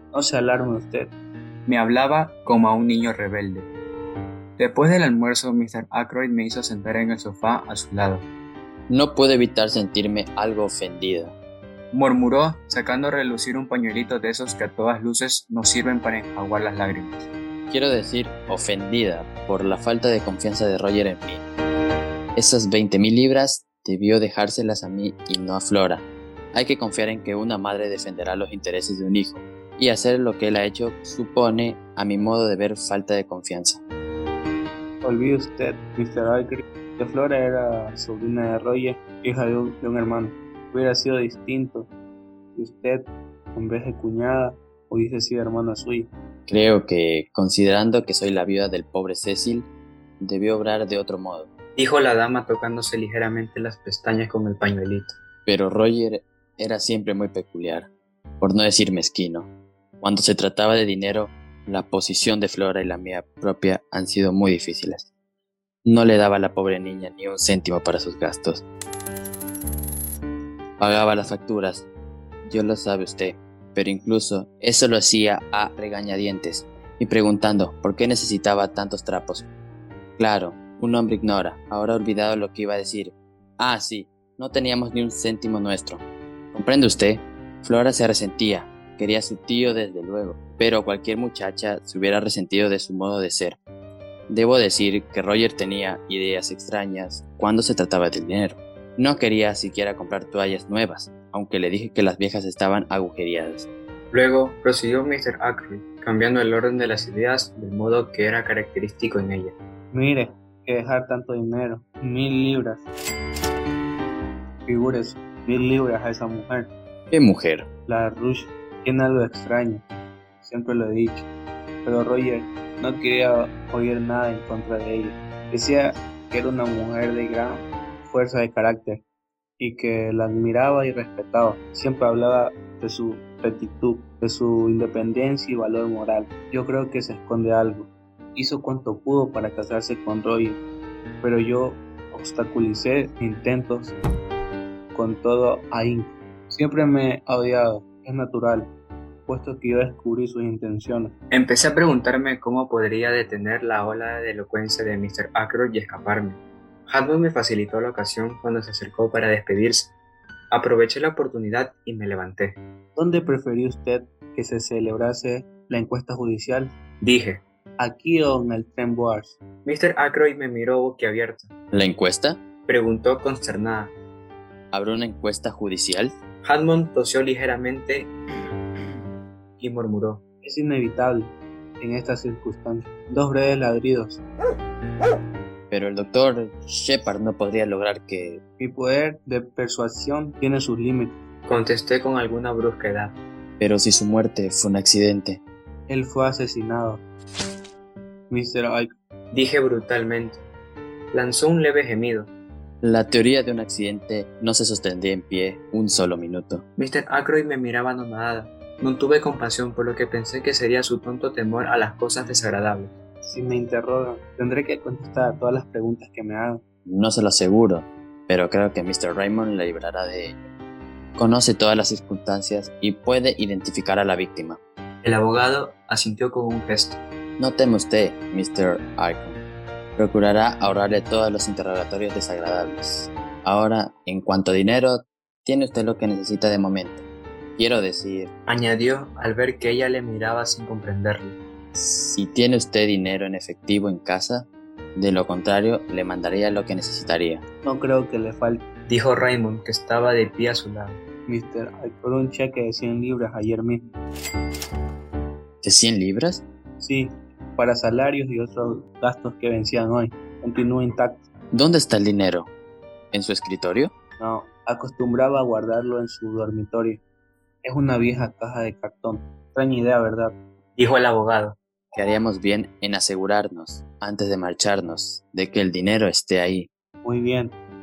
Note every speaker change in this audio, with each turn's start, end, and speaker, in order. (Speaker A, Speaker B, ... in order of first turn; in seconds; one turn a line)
Speaker A: 0.1-1.1
Speaker B: 1.6-3.7
Speaker B: 4.6-8.2
Speaker C: 8.9-11.3
Speaker B: 11.9-17.3
Speaker C: 17.7-21.4
Speaker C: 22.3-33.8
Speaker A: 35.0-41.9
Speaker A: 42.5-46.1
Speaker C: 46.5-49.7
Speaker C: 50.2-51.5
Speaker B: 51.8-55.1
Speaker C: 55.5-57.9
Speaker C: 58.4-59.5
Speaker C: 60.0-65.1
Speaker C: 65.8-68.6
Speaker C: 70.8-71.9
Speaker C: 72.4-79.5
Speaker C: 80.2-93.6
Speaker C: 94.3-103.7
Speaker B: 104.1-109.5
Speaker A: 109.9-112.9
Speaker A: 114.7-116.7
Speaker C: 117.1-117.7
Speaker A: 117.9-119.8
Speaker A: 120.4-121.3
Speaker A: 121.8-129.0
Speaker A: 129.6-140.6
Speaker A: 141.2-143.9
Speaker A: 144.9-148.7
Speaker A: 149.3-151.1
Speaker B: 151.3-159.9
Speaker B: 160.5-162.6
Speaker A: 162.9-166.7
Speaker B: 167.0-167.4
Speaker A: 167.8-169.4
Speaker B: 169.6-171.5
Speaker C: 171.7-172.4
Speaker B: 172.7-173.9
Speaker C: 174.7-176.2
Speaker B: 176.4-178.1
Speaker B: 179.6-180.2
Speaker A: 180.4-184.2
Speaker C: 185.7-188.4
Speaker A: 188.6-191.2
Speaker B: 191.5-193.2
Speaker C: 193.6-195.4
Speaker A: 195.9-197.0
Speaker A: 198.3-198.9
Speaker B: 199.3-200.4
Speaker B: 201.1-202.3
Speaker C: 202.8-206.6
Speaker B: 206.8-212.9
Speaker A: 213.2-216.6
Speaker C: 216.8-220.4
Speaker C: 221.2-224.6
Speaker B: 225.0-227.0
Speaker C: 227.4-229.4
Speaker C: 229.9-237.0
Speaker C: 237.6-238.3
Speaker B: 238.5-241.4
Speaker C: 241.7-247.4
Speaker A: 247.6-248.7
Speaker B: 248.9-251.0
Speaker A: 251.3-253.8
Speaker C: 255.6-256.4
Speaker A: 256.8-261.2
Speaker C: 261.5-262.5
Speaker C: 263.1-263.9
Speaker A: 264.2-267.0
Speaker A: 267.6-270.4
Speaker B: 270.8-271.6
Speaker C: 271.9-276.7
Speaker A: 277.0-277.6